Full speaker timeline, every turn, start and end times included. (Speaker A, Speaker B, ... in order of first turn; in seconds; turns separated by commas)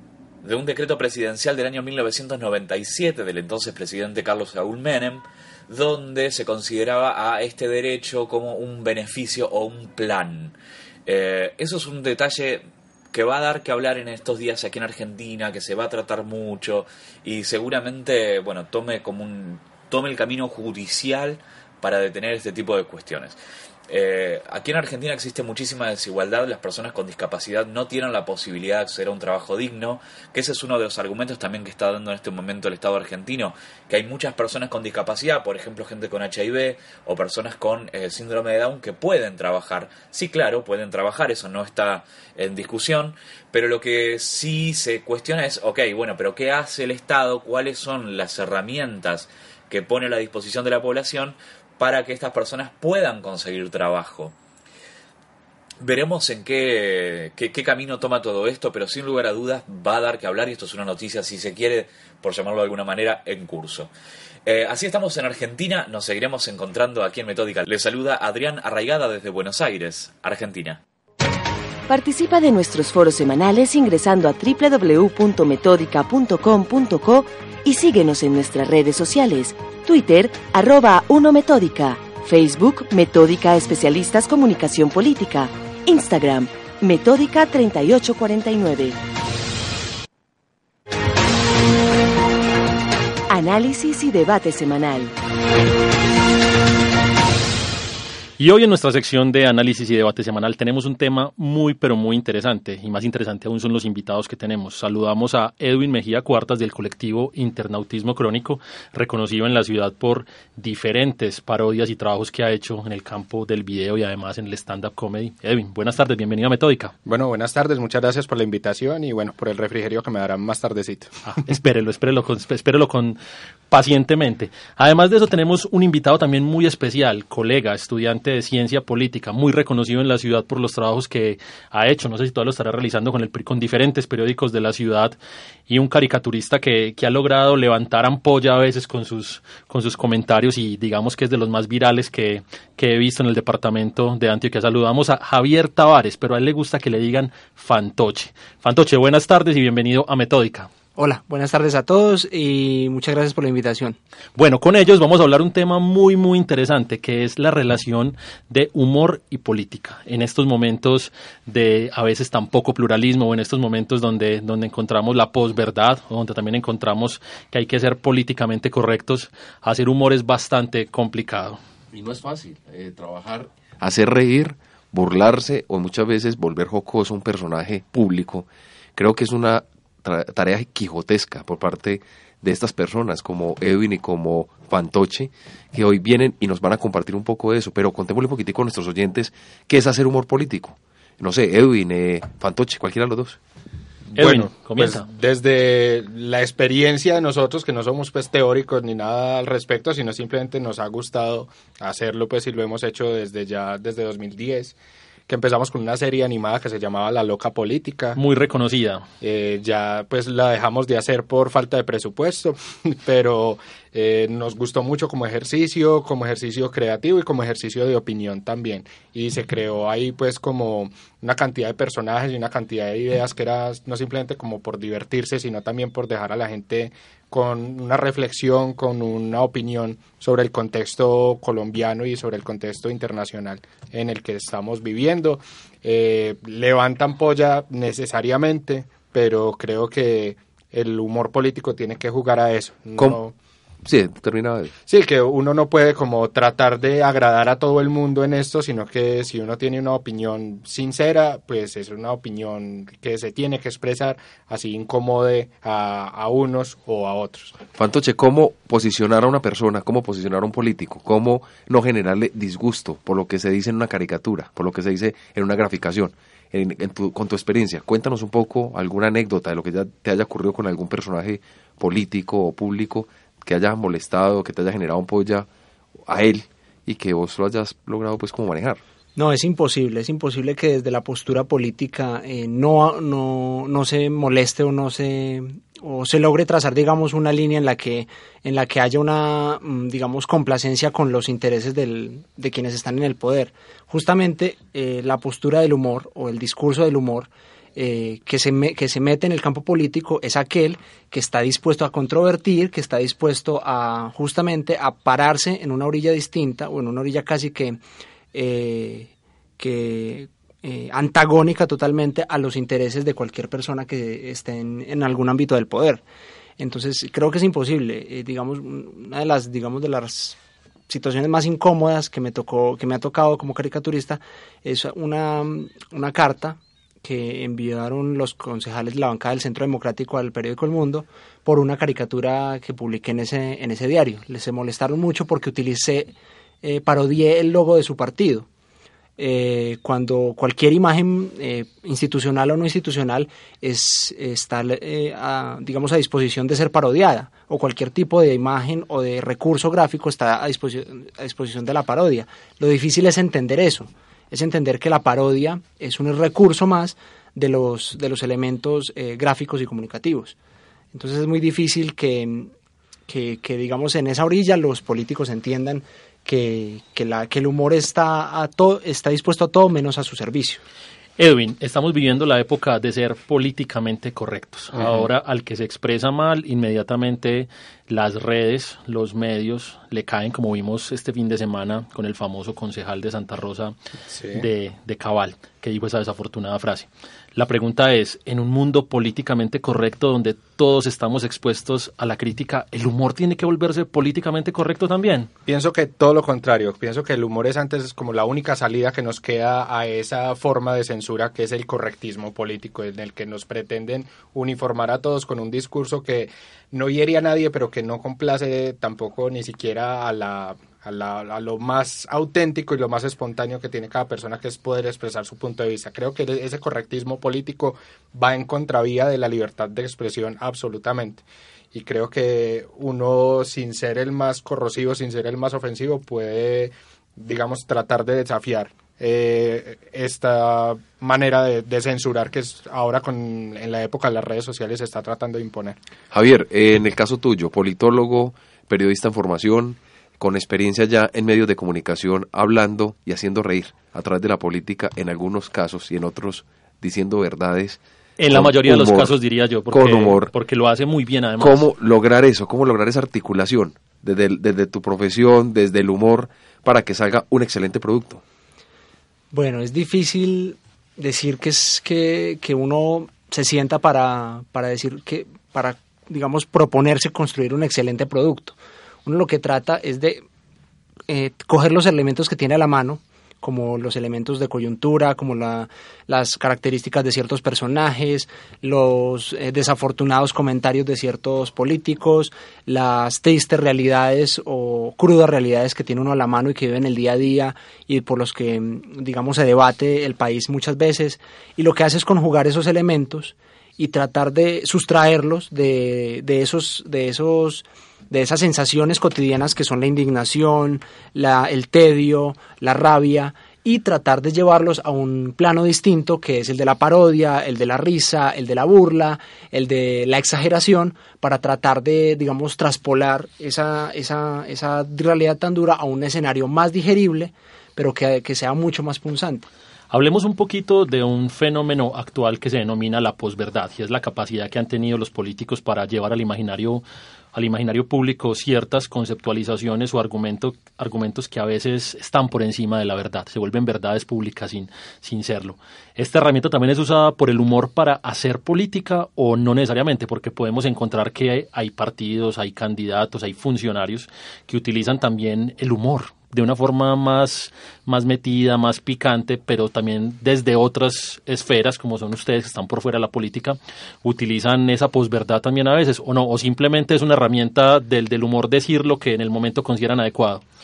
Speaker A: 0.4-23.4, Speaker A: 23.9-54.4, Speaker A: 55.8-63.9, Speaker A: 64.5-70.8, Speaker B: 71.9-89.0, Speaker B: 93.3-95.2, Speaker C: 98.4-116.9, Speaker D: 117.1-121.2, Speaker C: 121.3-123.2, Speaker C: 123.7-135.2, Speaker C: 135.7-150.7, Speaker E: 151.0-154.0, Speaker C: 154.4-171.6, Speaker F: 171.9-193.4, Speaker C: 194.2-195.1, Speaker D: 194.2-204.8, Speaker D: 205.3-208.2, Speaker C: 208.2-209.1, Speaker D: 209.2-243.3, Speaker F: 243.8-244.7, Speaker D: 244.9-257.6, Speaker F: 257.8-275.5, Speaker F: 276.1-278.8, Speaker E: 279.2-307.8, Speaker E: 308.3-316.0, Speaker E: 316.6-320.4, Speaker E: 320.9-338.5, Speaker E: 339.2-360.4, Speaker E: 360.9-362.5, Speaker E: 363.1-370.6, Speaker C: 371.2-383.8, Speaker D: 374.7-375.1, Speaker D: 384.1-384.5, Speaker C: 384.3-395.3, Speaker D: 395.5-435.8, Speaker F: 436.1-449.1, Speaker C: 448.2-451.6, Speaker F: 449.7-450.3, Speaker F: 451.4-458.2, Speaker E: 459.3-470.2, Speaker E: 471.1-519.5, Speaker C: 519.9-560.4